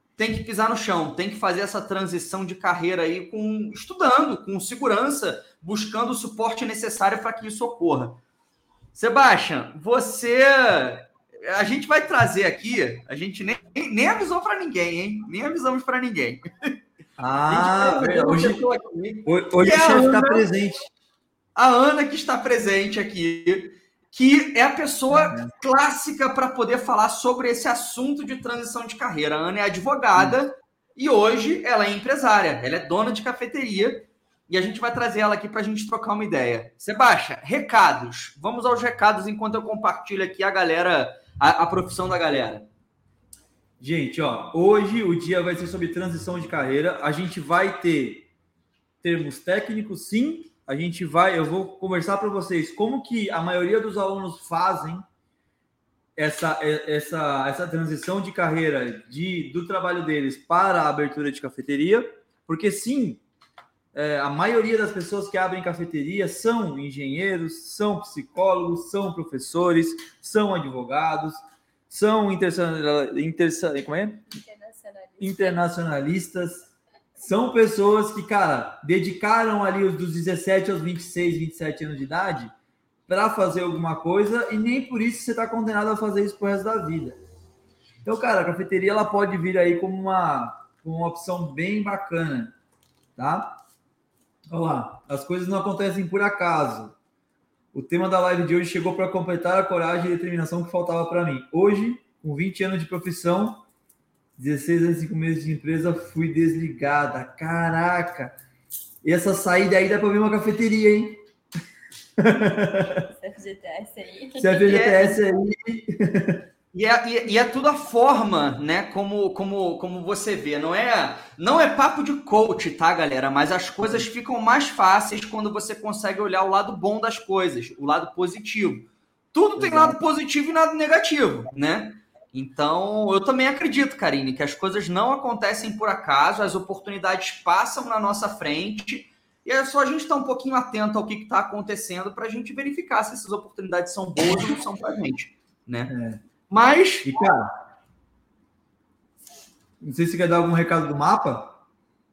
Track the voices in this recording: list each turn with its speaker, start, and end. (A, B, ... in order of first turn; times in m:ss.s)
0:00.2-0:08.2 A
0:08.9-0:16.4 A
0:17.2-0:18.6 B
0:17.5-0:20.5 A
0:19.2-0:20.9 B
0:21.6-0:42.7 A
0:25.1-0:25.5 B
0:43.8-0:48.3 B
0:49.0-0:55.0 B
0:56.2-1:03.2 B
1:03.9-1:14.2 B
1:14.3-1:15.6 C
1:15.2-1:22.5 B
1:23.1-1:27.2 B
1:28.0-1:32.5 B
1:33.2-1:33.6 B
1:34.5-1:36.9 B
1:37.7-1:43.6 B
1:44.4-1:48.4 B
1:49.0-1:51.2 B
1:52.2-1:53.1 B
1:53.1-1:54.5 C
1:54.4-1:56.4 B
1:54.6-1:55.2 A
1:56.7-2:25.9 A
2:09.6-2:10.0 B
2:25.9-2:26.2 B
2:26.5-2:27.1 A
2:27.0-2:27.5 B
2:29.8-2:31.6 B